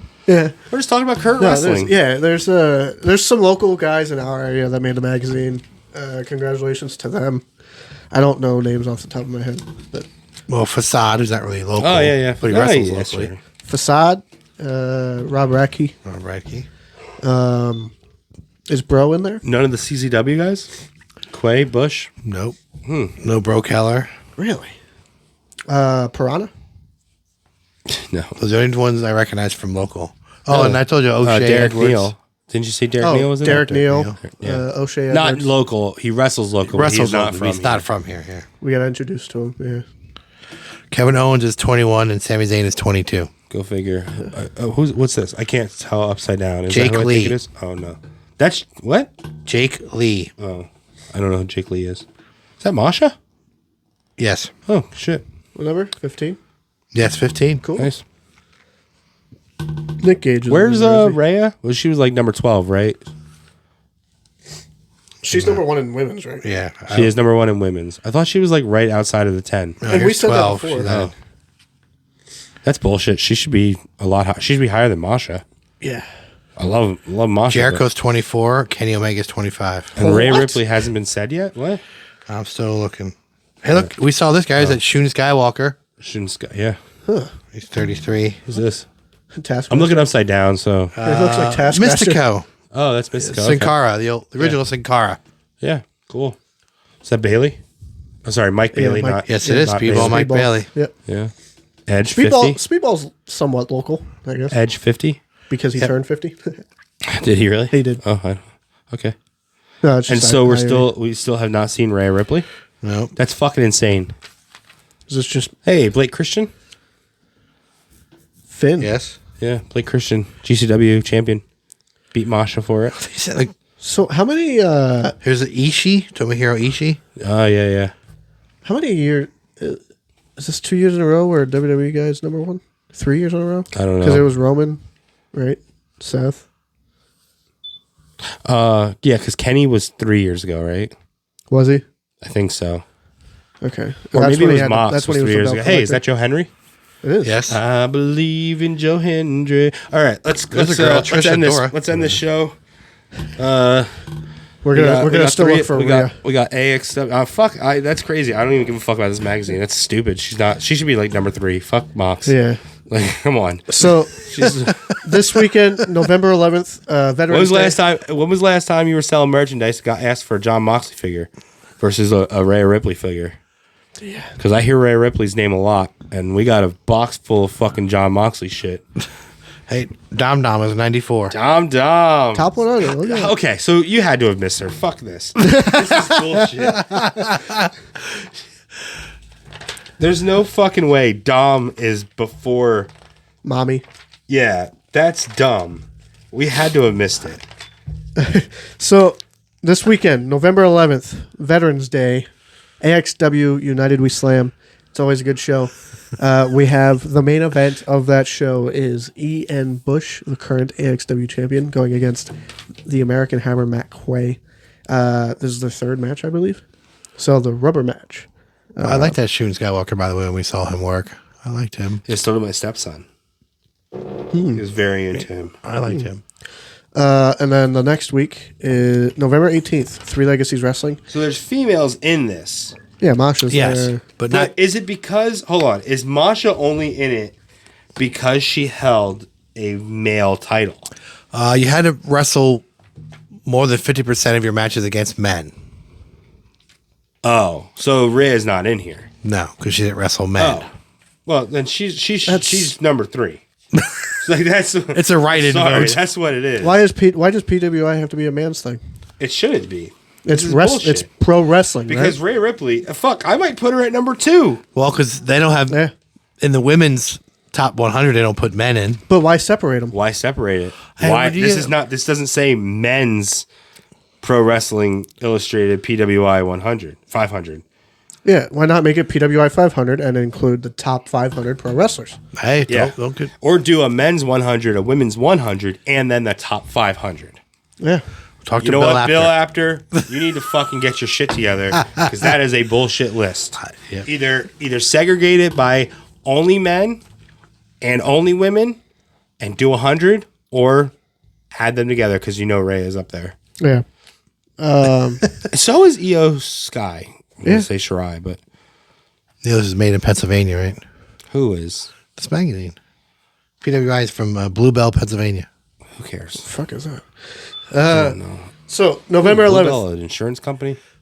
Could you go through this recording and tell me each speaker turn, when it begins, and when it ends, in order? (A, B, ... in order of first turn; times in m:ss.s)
0:00.3-0:00.6 A
0:00.7-0:01.9 B
0:01.4-0:07.4 A
0:08.1-0:10.1 A
0:10.5-0:13.3 C
0:11.8-0:13.4 B
0:13.6-0:16.0 A
0:16.0-0:16.7 C
0:17.2-0:17.9 A
0:18.7-0:19.4 A
0:19.4-0:20.7 B
0:21.3-0:22.1 B
0:22.2-0:22.6 C
0:22.8-0:23.1 B
0:23.2-0:24.1 C
0:24.4-0:24.8 A
0:25.7-0:26.5 A
0:27.9-0:28.3 B
0:28.4-0:32.1 C
0:31.2-0:37.8 B
0:33.0-0:35.5 A
0:33.4-0:34.2 C
0:36.6-0:38.5 C
0:38.6-0:39.8 A
0:40.9-0:43.3 C
0:43.5-0:49.1 B
0:46.7-0:47.4 C
0:49.4-0:50.3 C
0:50.4-0:52.0 B
0:52.6-0:53.1 B
0:54.2-0:54.5 C
0:54.7-0:55.2 B
0:55.6-0:56.4 A
0:56.9-0:57.6 C
0:57.6-0:57.9 A
1:00.0-1:01.2 A
1:00.5-1:03.0 B
1:05.2-1:06.4 A
1:05.3-1:05.6 C
1:06.4-1:07.1 C
1:06.9-1:09.8 B
1:09.8-1:11.1 C
1:09.9-1:10.9 A
1:10.8-1:11.1 B
1:12.6-1:15.4 B
1:15.8-1:16.1 A
1:16.6-1:17.8 B
1:17.5-1:19.9 C
1:19.9-1:21.8 B
1:20.0-1:20.6 A
1:22.3-1:25.8 C
1:26.0-1:26.8 B
1:27.1-1:27.3 A
1:27.5-1:28.4 C
1:28.5-1:28.8 B
1:29.3-1:30.1 A
1:29.7-1:30.9 B
1:30.9-1:32.5 C
1:31.0-1:32.2 A
1:32.7-1:33.7 B
1:33.3-1:35.2 C
1:35.6-1:36.4 B
1:37.0-1:37.6 B
1:38.2-1:40.2 B
1:38.7-1:40.9 A
1:39.3-1:40.7 C
1:41.1-1:41.3 B
1:41.9-1:42.6 B
1:42.2-1:44.6 A
1:44.5-1:45.2 B
1:45.5-1:46.6 A
1:47.0-1:49.1 B
1:47.7-1:48.0 A
1:49.8-1:50.9 A
1:50.1-1:52.5 B
1:52.8-1:53.1 C
1:53.2-1:54.1 B
1:55.1-1:55.5 A
1:55.6-1:56.5 B
1:58.5-1:58.9 A
1:58.8-1:59.2 C
1:59.4-2:01.4 B
2:02.1-2:03.0 B
2:02.9-2:03.5 C
2:03.8-2:05.2 A
2:05.2-2:07.0 C
2:07.2-2:07.9 B
2:08.6-2:09.8 A
2:10.4-2:14.8 A
2:13.7-2:14.2 B
2:15.3-2:16.4 A
2:18.4-2:20.9 B
2:21.5-2:21.8 A
2:22.2-2:22.8 B
2:23.6-2:26.0 A
2:24.1-2:26.5 B
2:27.0-2:27.4 A
2:27.2-2:27.6 C
2:27.5-2:32.5 B
2:30.5-2:32.1 C
2:33.4-2:34.0 B
2:34.6-2:36.2 A
2:34.7-2:42.3 B
2:42.2-2:42.6 A
2:42.9-2:45.1 B
2:43.7-2:47.8 A
2:47.3-2:51.3 B
2:51.8-2:53.4 B
2:54.0-2:54.3 A
2:54.4-2:58.8 B
2:59.7-3:01.3 C
3:01.3-3:07.3 B
3:02.3-3:03.3 A
3:05.4-3:06.8 A
3:06.9-3:07.5 C
3:10.0-3:12.9 B
3:13.4-3:13.8 A
3:14.3-3:17.4 B
3:18.2-3:22.3 A
3:22.8-3:32.3 A
3:32.8-3:36.6 A
3:37.2-3:39.2 A
3:38.8-3:42.0 C
3:42.1-3:43.0 B
3:44.3-3:44.6 A
3:44.5-3:45.5 B
3:45.6-3:46.2 C
3:46.9-3:51.0 A
3:51.1-3:52.7 B
3:53.0-3:54.0 A
3:53.5-3:54.5 C
3:54.3-3:57.4 B
3:58.0-4:00.9 B
4:01.3-4:02.6 C
4:03.4-4:05.5 C
4:07.2-4:09.1 B
4:09.2-4:10.7 C
4:10.4-4:10.7 B
4:11.2-4:13.4 B
4:12.3-4:12.7 A
4:13.7-4:14.2 C
4:14.2-4:16.8 B
4:14.9-4:16.0 C
4:16.6-4:18.8 A
4:19.2-4:21.1 B
4:20.2-4:22.2 A
4:21.9-4:24.6 B
4:24.7-4:25.8 C
4:26.4-4:29.0 C
4:29.1-4:30.0 A
4:29.9-4:33.4 B
4:31.0-4:31.7 C
4:34.2-4:37.6 B
4:38.2-4:42.2 A
4:42.3-4:43.3 C
4:42.7-4:47.4 B
4:48.4-4:49.3 C
4:48.6-4:57.0 B
4:53.6-4:54.0 C
4:57.8-4:58.8 B
4:59.4-5:00.9 B
5:01.5-5:03.4 B
5:04.6-5:05.3 A
5:05.5-5:08.4 B
5:09.4-5:10.8 C
5:11.3-5:11.9 B
5:12.2-5:12.8 C
5:13.6-5:15.5 C
5:16.0-5:16.4 B
5:16.4-5:17.1 A
5:17.7-5:19.8 A
5:17.8-5:18.5 B
5:19.2-5:20.8 B